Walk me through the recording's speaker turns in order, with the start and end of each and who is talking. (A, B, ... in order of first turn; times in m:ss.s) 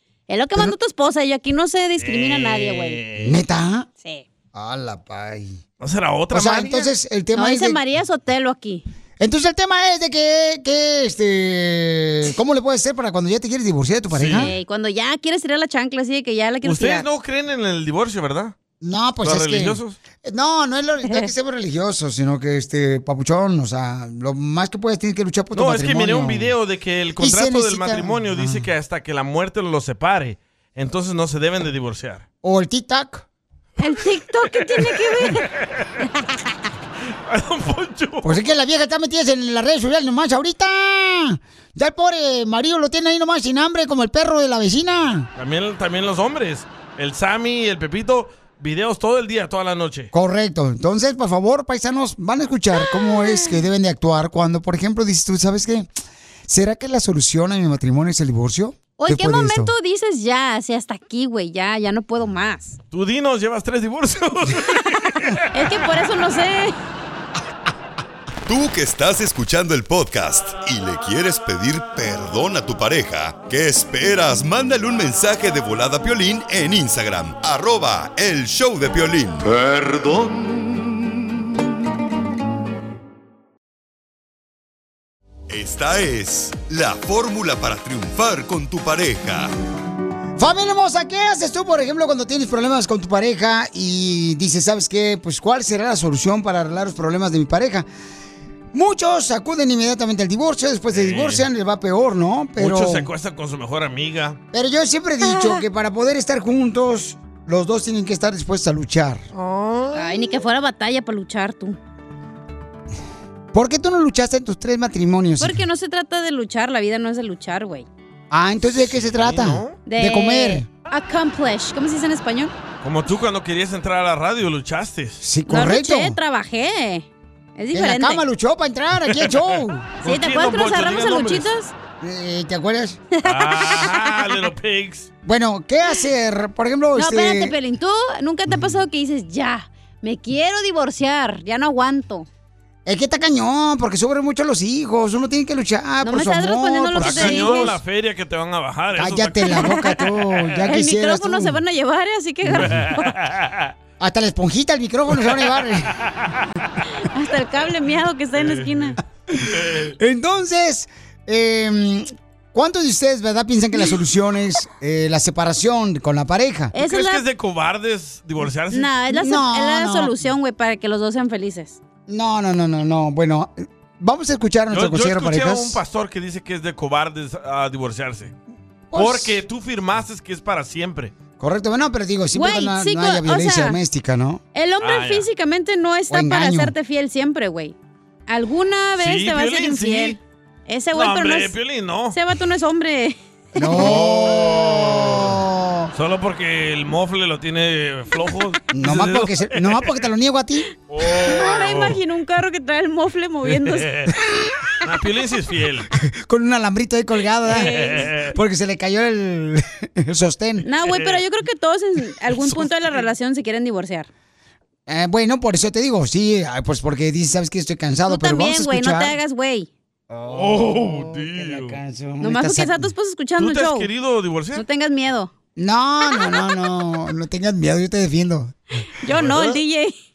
0:00.3-0:03.0 A
0:02.0-0:03.4 B
0:03.2-0:03.9 C
0:04.5-0:05.6 C
0:05.8-0:06.9 B
0:06.3-0:07.8 C
0:07.3-0:08.8 A
0:09.2-0:14.5 C
0:14.1-0:14.5 B
0:14.4-0:17.0 A
0:16.6-0:18.5 B
0:18.8-0:26.5 C
0:19.2-0:20.0 B
0:25.5-0:32.2 B
0:27.2-0:28.7 C
0:32.4-0:33.2 C
0:33.8-0:35.4 A
0:34.5-0:35.9 B
0:37.2-0:38.4 B
0:38.2-0:45.3 C
0:45.4-0:50.1 B
0:50.1-0:55.9 C
0:52.9-0:53.5 A
0:56.5-0:59.7 C
0:59.0-1:02.8 A
1:02.9-1:05.6 B
1:05.5-1:06.7 A
1:08.5-1:20.6 D
1:25.5-1:29.5 D
1:30.4-1:37.9 C
1:38.7-1:43.1 C
1:40.9-1:41.4 B
1:42.6-1:44.4 B
1:44.5-1:49.2 C
1:45.2-1:45.6 A
1:49.3-1:50.2 B
1:49.9-1:51.8 A
1:53.5-1:55.6 C
1:55.4-1:57.9 A
1:58.3-2:00.7 C
1:58.7-1:59.8 B
1:59.8-2:02.5 A
2:02.8-2:05.2 B
2:05.2-2:06.2 C
2:05.5-2:08.2 A
2:07.7-2:09.9 C
2:09.1-2:09.4 B
2:10.0-2:11.5 B
2:10.0-2:11.7 A
2:12.0-2:13.0 C
2:13.2-2:14.1 A
2:13.2-2:15.1 B
2:15.2-2:17.5 C
2:16.9-2:22.3 A
2:22.8-2:27.8 C
2:26.0-2:27.7 A
2:27.0-2:29.8 B
2:29.0-2:31.6 C
2:29.5-2:30.0 A
2:30.7-2:33.1 A
2:32.5-2:33.7 B
2:34.0-2:35.9 C
2:36.2-2:36.4 B
2:37.1-2:39.0 A
2:38.3-2:39.0 B
2:39.3-2:46.7 C
2:39.5-2:39.9 B
2:46.7-2:47.2 A
2:46.8-2:48.9 B
2:48.7-2:51.8 A
2:49.1-2:50.1 C
2:52.1-2:55.8 C
2:54.7-2:58.3 B
2:58.9-2:59.4 C
2:58.9-3:01.1 B
3:01.4-3:04.4 C
3:02.3-3:03.8 A
3:04.5-3:07.7 A
3:04.8-3:05.2 B
3:06.1-3:06.7 C
3:08.3-3:11.5 A
3:09.0-3:10.2 B
3:10.9-3:12.2 B
3:12.1-3:13.9 A
3:13.5-3:15.9 C
3:13.8-3:15.4 B
3:15.9-3:19.9 B
3:18.7-3:20.7 C
3:20.9-3:22.0 B
3:21.2-3:23.9 A
3:23.5-3:24.1 B
3:24.8-3:25.9 B
3:26.0-3:30.6 C
3:27.5-3:28.0 A
3:27.6-3:28.3 B
3:30.6-3:34.1 A
3:30.8-3:31.2 B
3:32.4-3:32.7 B
3:34.9-3:39.2 C
3:38.1-3:39.7 A
3:40.1-3:42.9 C
3:40.3-3:41.8 B
3:42.2-3:43.9 A
3:43.4-3:44.6 B
3:44.5-3:45.3 A
3:45.6-3:48.6 C
3:49.0-3:49.9 A
3:49.2-3:49.5 B